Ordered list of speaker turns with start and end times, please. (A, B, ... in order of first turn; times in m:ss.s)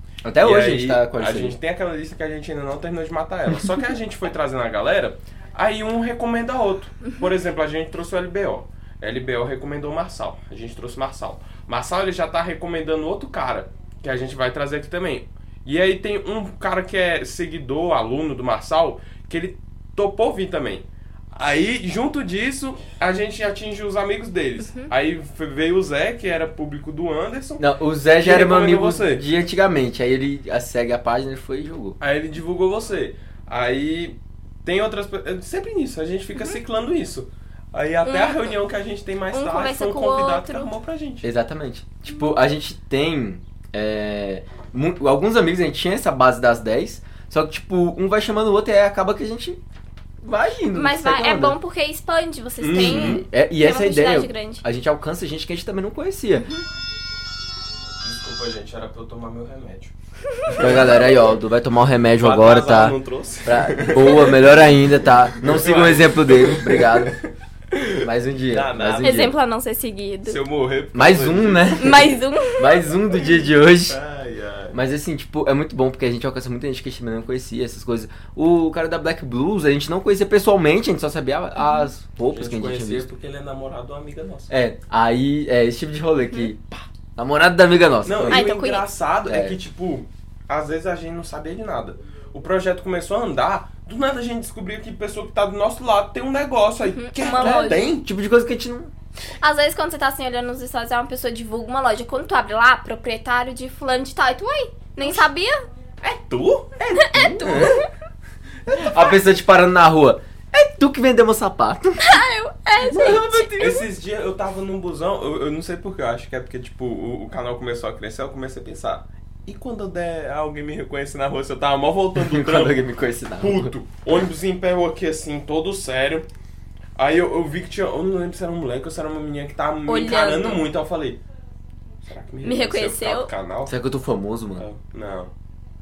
0:00.2-0:01.6 A
0:00.4-0:27.6 B
0:27.6-0:32.0 A
0:28.2-0:29.2 B
0:32.0-0:41.3 B
0:38.0-0:38.5 C
0:39.3-0:40.7 C
0:41.2-0:49.6 A
0:50.2-0:51.6 A
0:50.7-0:54.6 C
0:52.6-0:53.2 B
0:52.8-0:56.5 A
0:56.4-0:56.6 C
0:58.0-0:59.9 B
1:00.4-1:01.2 B
1:00.6-1:07.2 A
1:02.2-1:04.7 B
1:05.3-1:09.3 B
1:08.0-1:09.3 A
1:09.0-1:10.4 C
1:10.2-1:12.1 B
1:10.9-1:14.0 A
1:11.8-1:12.9 C
1:13.2-1:14.8 B
1:14.7-1:23.1 A
1:21.6-1:21.9 C
1:22.3-1:24.5 B
1:24.5-1:28.4 A
1:28.0-1:38.1 B
1:28.3-1:28.8 C
1:29.3-1:29.6 A
1:36.9-1:37.8 C
1:37.4-1:38.9 A
1:39.4-1:45.7 C
1:46.0-1:47.8 B
1:47.0-1:47.7 A
1:47.0-1:47.8 C
1:48.7-1:49.2 B
1:48.7-1:52.0 A
1:52.0-1:53.8 C
1:52.8-2:02.8 B
2:02.1-2:03.7 A
2:03.4-2:06.2 B
2:07.0-2:11.2 B
2:09.9-2:10.6 C
2:12.0-2:13.7 B
2:12.4-2:13.3 C
2:13.6-2:14.6 A
2:14.6-2:15.3 B